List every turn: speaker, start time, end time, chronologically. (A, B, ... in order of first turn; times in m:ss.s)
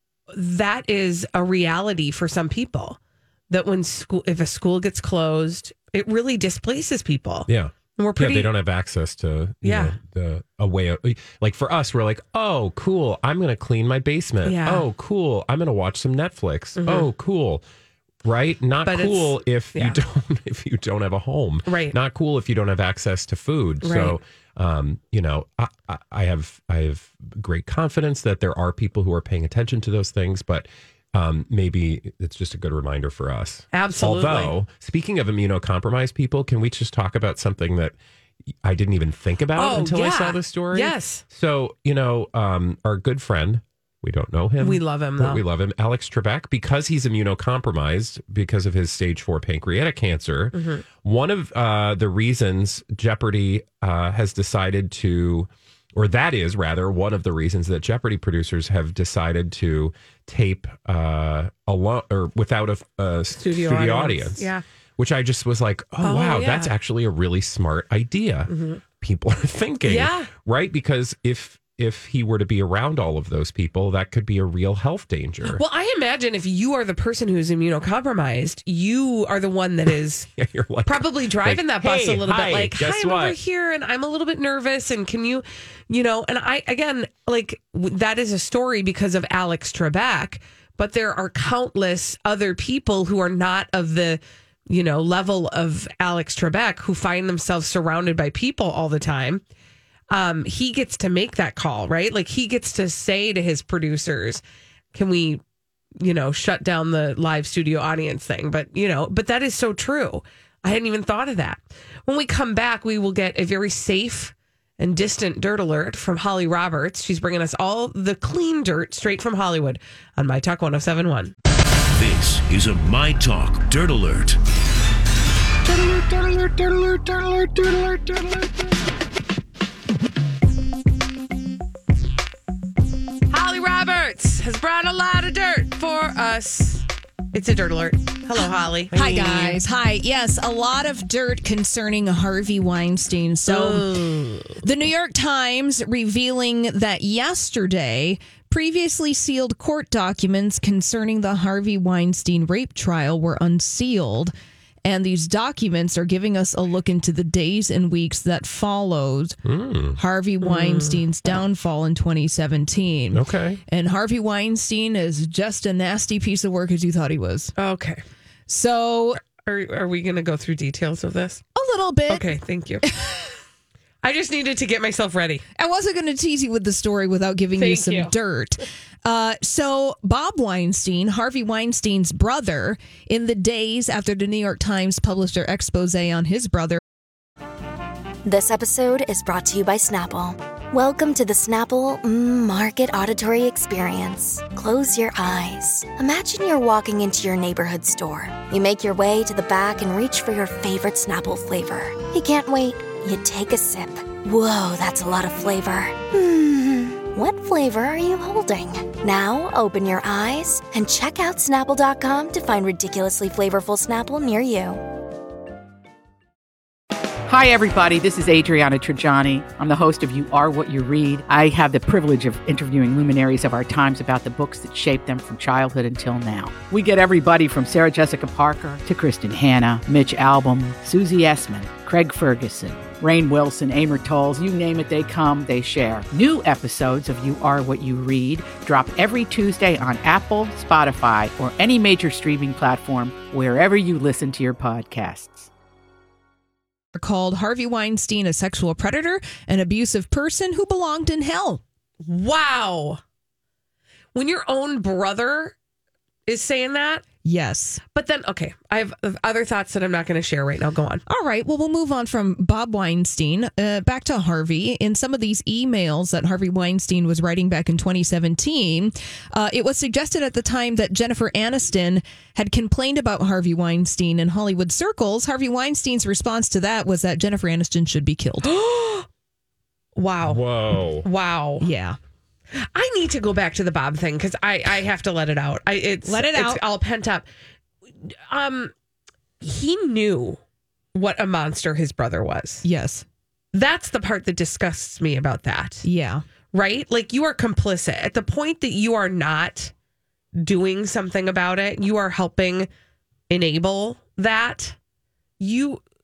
0:00.3-0:03.0 A
0:03.5-0:08.5 A
0:07.5-0:17.6 B
0:09.6-0:09.9 A
0:14.4-0:14.9 A
0:16.8-0:17.1 A
0:18.2-0:38.0 B
0:18.9-0:20.0 A
0:21.7-0:22.0 A
0:23.8-0:24.2 A
0:33.7-0:34.5 A
0:38.5-1:15.6 B
0:39.6-0:41.2 A
0:44.6-0:45.4 A
0:50.6-0:50.8 A
1:03.4-1:04.6 A
1:06.0-1:06.7 A
1:08.5-1:08.8 A
1:09.9-1:10.3 A
1:15.4-1:20.3 A
1:20.4-1:23.4 B
1:20.9-1:39.4 A
1:40.1-1:44.4 A
1:44.9-1:45.4 A
1:46.0-2:01.3 A
2:02.0-2:04.4 C
2:13.3-2:19.6 A
2:18.9-2:23.9 D
2:23.5-2:24.6 A
2:24.6-2:34.3 D
2:34.8-2:39.4 D
2:39.4-2:40.0 B
2:40.0-2:47.5 D
2:40.4-2:41.0 A
2:43.1-2:43.6 B
2:47.6-2:48.0 A
2:48.5-2:49.2 D
2:49.4-2:51.4 A
2:51.6-2:52.3 D
2:52.1-2:52.8 A
2:52.9-2:53.3 D
2:54.0-2:55.4 A
2:55.6-3:06.8 D
2:57.6-2:58.1 A
3:08.2-3:34.8 E
3:37.3-4:05.5 F
4:07.0-4:11.6 D
4:12.0-4:13.0 A
4:14.1-4:15.6 A
4:16.3-4:17.0 A
4:17.2-4:17.8 D
4:18.0-4:21.0 A
4:21.1-4:38.5 D
4:38.4-4:39.1 A
4:40.0-4:40.4 A
4:40.2-4:41.1 B
4:41.0-4:41.7 A
4:41.6-4:42.0 D
4:42.5-4:47.2 A
4:46.1-4:46.6 D
4:48.1-4:48.7 A
4:49.4-4:50.4 A
4:50.9-4:52.6 A
4:52.6-4:53.1 D
4:53.5-4:55.8 A
4:55.8-4:56.2 D
4:56.5-4:59.7 A
5:00.4-5:02.7 A
5:03.3-5:04.8 A
5:05.4-5:05.8 A